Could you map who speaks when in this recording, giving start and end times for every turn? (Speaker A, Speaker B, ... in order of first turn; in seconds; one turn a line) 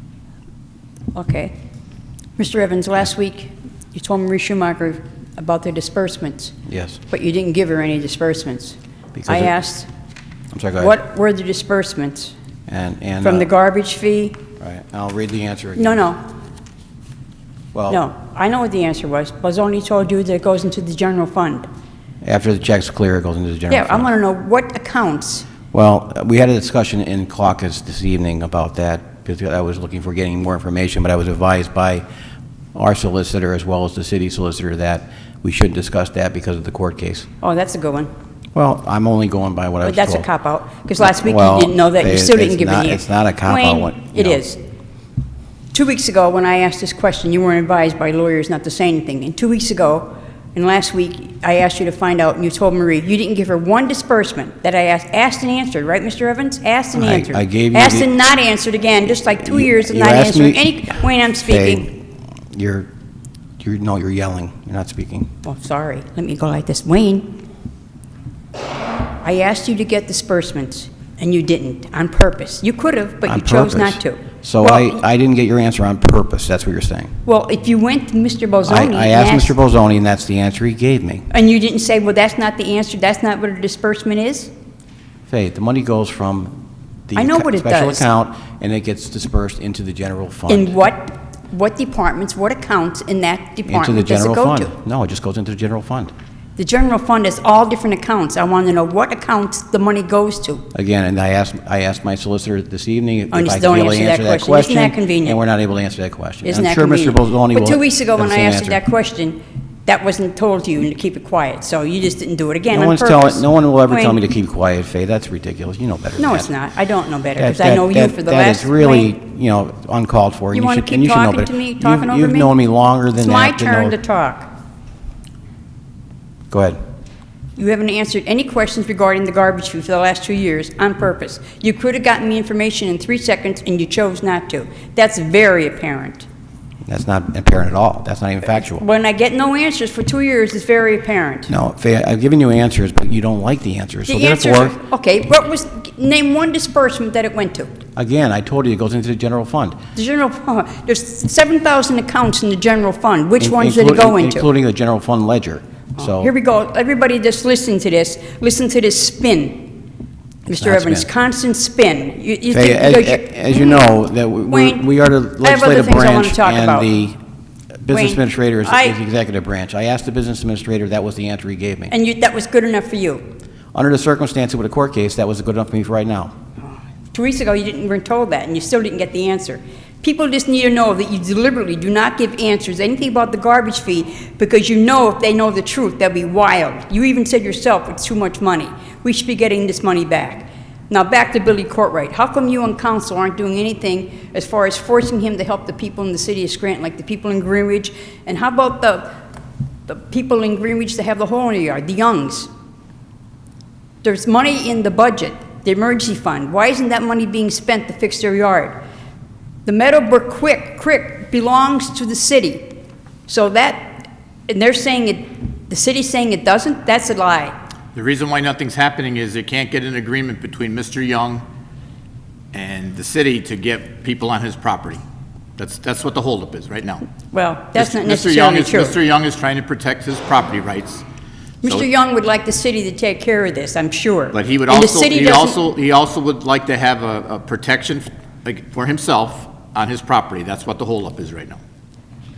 Speaker A: 1.1-1.5
Speaker A: 2.4-6.6
Speaker B: 6.7-7.0
Speaker A: 7.1-9.9
Speaker B: 9.1-9.5
Speaker B: 10.5-11.0
Speaker A: 10.8-12.3
Speaker B: 12.7-13.5
Speaker A: 13.2-14.4
Speaker B: 14.6-16.1
Speaker A: 15.8-16.2
Speaker B: 17.7-18.0
Speaker A: 17.9-21.7
Speaker B: 22.2-24.1
Speaker A: 23.7-25.5
Speaker B: 25.7-32.0
Speaker B: 32.7-37.3
Speaker A: 37.4-38.1
Speaker B: 38.5-40.3
Speaker A: 39.8-44.6
Speaker B: 41.0-44.4
Speaker A: 45.7-61.9
Speaker B: 56.9-58.1
Speaker B: 59.4-62.9
Speaker B: 63.6-65.3
Speaker A: 65.4-67.4
Speaker A: 69.2-75.0
Speaker B: 73.3-77.1
Speaker A: 77.3-79.5
Speaker B: 78.7-81.3
Speaker A: 81.3-84.5
Speaker B: 85.3-90.7
Speaker A: 87.2-88.1
Speaker A: 90.5-94.7
Speaker B: 93.7-96.1
Speaker A: 96.6-100.7
Speaker B: 100.7-108.8
Speaker A: 103.3-105.4
Speaker A: 106.5-114.2
Speaker B: 112.7-116.5
Speaker A: 116.2-119.1
Speaker B: 117.4-124.0
Speaker A: 120.5-122.5
Speaker A: 123.2-124.5
Speaker B: 126.5-126.8
Speaker A: 127.6-136.3
Speaker B: 136.9-138.8
Speaker A: 138.5-141.5
Speaker B: 141.5-144.8
Speaker A: 144.1-147.8
Speaker B: 148.0-149.8
Speaker A: 149.9-154.5
Speaker B: 153.4-156.3
Speaker A: 156.0-159.8
Speaker A: 160.5-163.9
Speaker B: 160.5-161.1
Speaker B: 162.5-167.2
Speaker A: 164.5-164.9
Speaker A: 165.4-167.0
Speaker B: 167.8-171.9
Speaker A: 167.9-169.0
Speaker A: 171.9-173.2
Speaker B: 173.7-176.3
Speaker A: 177.1-199.2
Speaker A: 199.9-202.5
Speaker A: 204.0-208.8
Speaker A: 209.7-212.7
Speaker A: 213.3-217.6
Speaker C: 217.9-221.4
Speaker C: 222.5-225.0
Speaker C: 225.6-227.1
Speaker A: 227.3-229.0
Speaker C: 227.8-231.1
Speaker A: 231.6-235.6
Speaker C: 234.3-241.6